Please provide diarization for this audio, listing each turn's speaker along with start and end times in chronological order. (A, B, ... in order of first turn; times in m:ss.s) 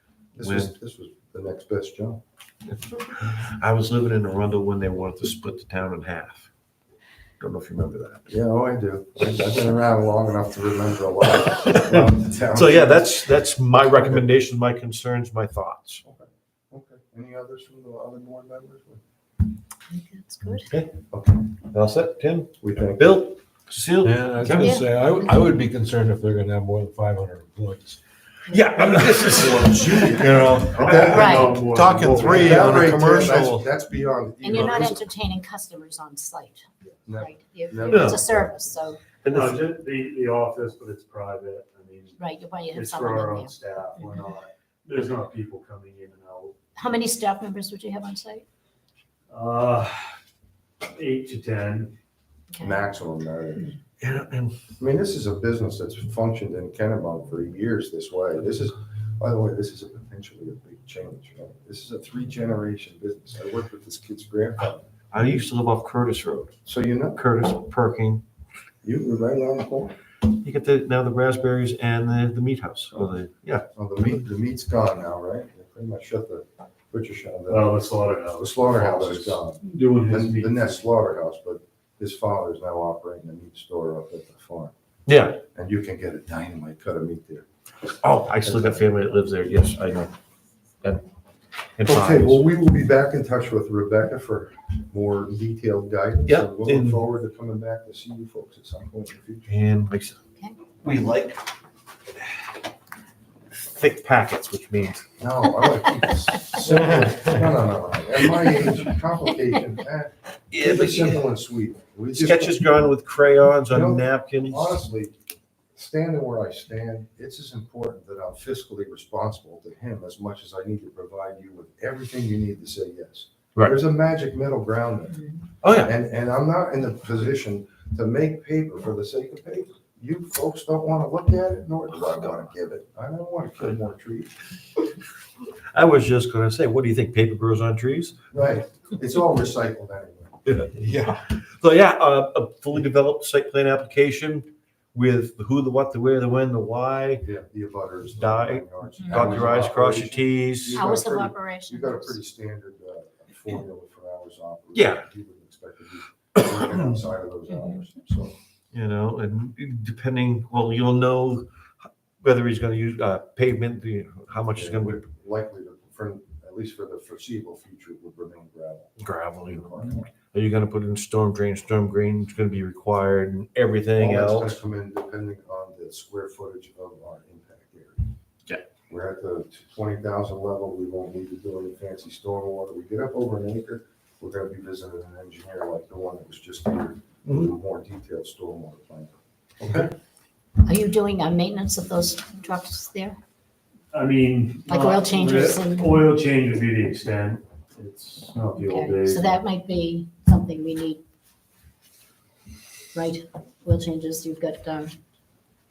0:00.4-0:02.2 A
0:00.4-0:00.7 B
0:02.7-0:06.5 B
0:07.4-0:08.3 B
0:08.3-0:13.3 A
0:11.4-0:16.0 B
0:13.9-0:14.2 A
0:16.0-0:19.0 A
0:19.9-0:20.7 C
0:20.5-0:21.0 B
0:21.1-0:21.6 A
0:21.7-0:24.8 B
0:22.6-0:23.3 A
0:24.0-0:28.0 D
0:24.6-0:25.0 C
0:28.5-0:33.7 B
0:28.7-0:33.0 D
0:28.9-0:35.0 A
0:30.8-0:32.6 E
0:31.1-0:31.5 C
0:34.4-0:39.0 C
0:37.0-0:38.6 A
0:37.9-0:38.2 B
0:39.2-0:39.6 B
0:39.3-0:46.6 E
0:42.2-0:44.2 C
0:46.8-0:48.4 C
0:49.3-0:50.1 E
0:50.8-0:51.9 E
0:52.5-0:52.8 C
0:52.6-0:53.8 A
0:54.0-0:54.6 B
0:54.8-1:04.8 A
1:05.1-1:06.6 B
1:06.7-1:07.2 A
1:07.2-1:08.2 B
1:08.8-1:10.0 A
1:10.2-1:13.6 B
1:13.7-1:17.8 A
1:17.5-1:20.8 E
1:18.4-1:24.7 A
1:25.1-1:25.4 B
1:25.5-1:27.5 A
1:28.0-1:30.1 B
1:28.4-1:28.8 A
1:31.8-1:32.5 B
1:31.8-1:39.6 A
1:36.2-1:37.0 B
1:39.5-1:40.2 B
1:40.8-1:41.5 B
1:43.5-1:45.0 B
1:45.2-1:52.7 A
1:50.5-1:51.2 B
1:52.1-1:54.8 B
1:53.7-1:55.1 A
1:55.8-2:14.3 A
2:05.6-2:05.9 B
2:15.7-2:18.2 B
2:18.3-2:21.0 A
2:20.5-2:27.2 B
2:27.2-2:38.3 A
2:28.2-2:30.9 B
2:29.0-2:29.4 C
2:30.7-2:32.2 C
2:34.7-2:35.0 B
2:38.7-2:41.4 B
2:42.2-2:45.0 B
2:44.5-2:50.1 A
2:49.0-2:54.6 B
2:54.0-2:58.1 A
2:58.9-3:09.9 A
3:07.3-3:07.5 B
3:10.6-3:13.2 C
3:13.9-3:19.4 E
3:14.7-3:16.1 C
3:18.5-3:21.0 C
3:22.9-3:25.0 C